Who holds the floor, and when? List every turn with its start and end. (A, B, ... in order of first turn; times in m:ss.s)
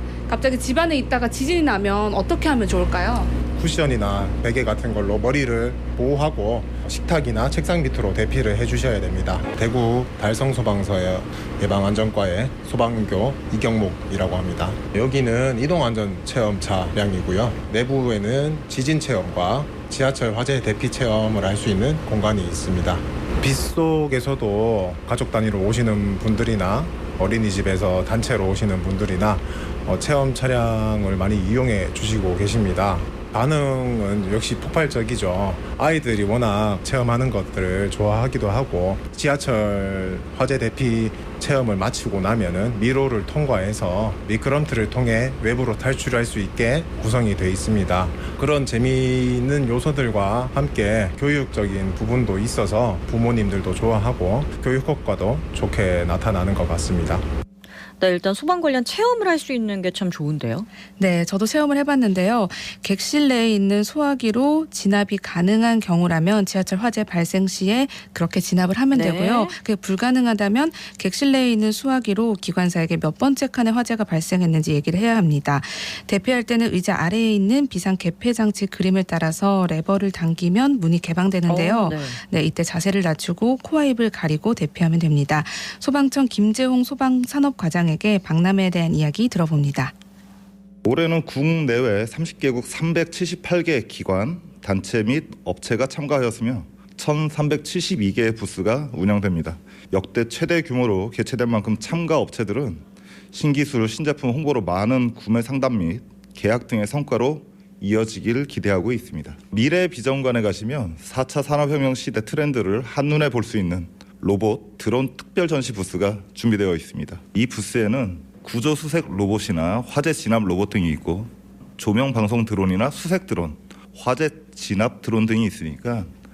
0:00.3-0:03.3 A
0:03.6-0:57.2 B
0:58.0-1:00.7 C
1:01.0-1:29.9 D
1:08.9-1:09.6 C
1:21.5-1:22.2 C
1:30.8-2:06.1 E